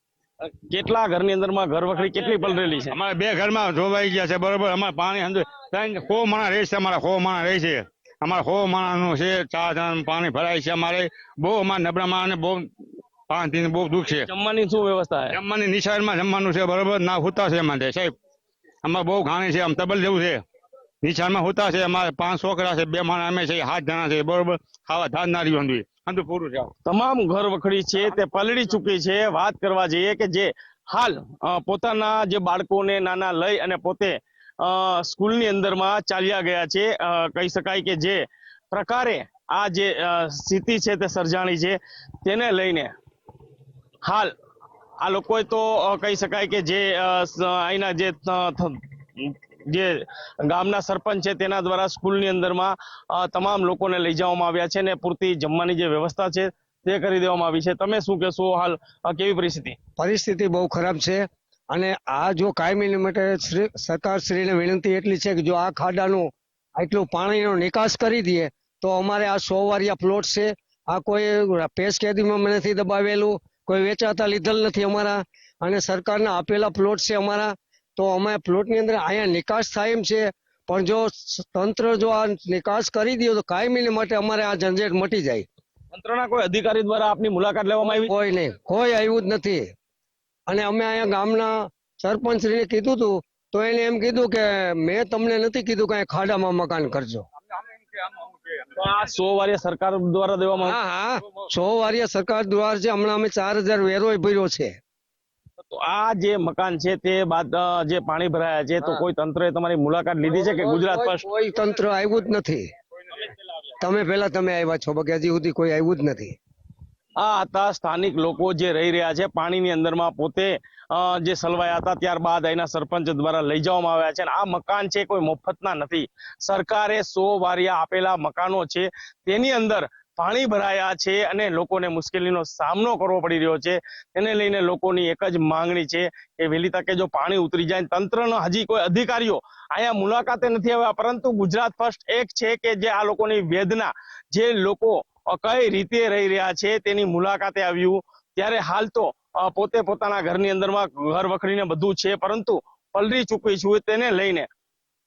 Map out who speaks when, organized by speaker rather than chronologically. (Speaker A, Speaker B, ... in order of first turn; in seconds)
Speaker A: 0.5-3.0, 14.3-15.3, 26.9-42.9, 44.0-44.3, 45.0-59.8, 85.9-88.1, 98.8-100.8, 105.7-111.2, 117.2-154.5
Speaker B: 2.9-12.7, 13.3-14.3, 15.3-18.1, 18.8-20.4, 21.0-26.7
Speaker C: 60.0-85.4, 88.0-89.7, 90.5-97.2, 100.7-104.8, 110.4-112.7, 113.8-116.4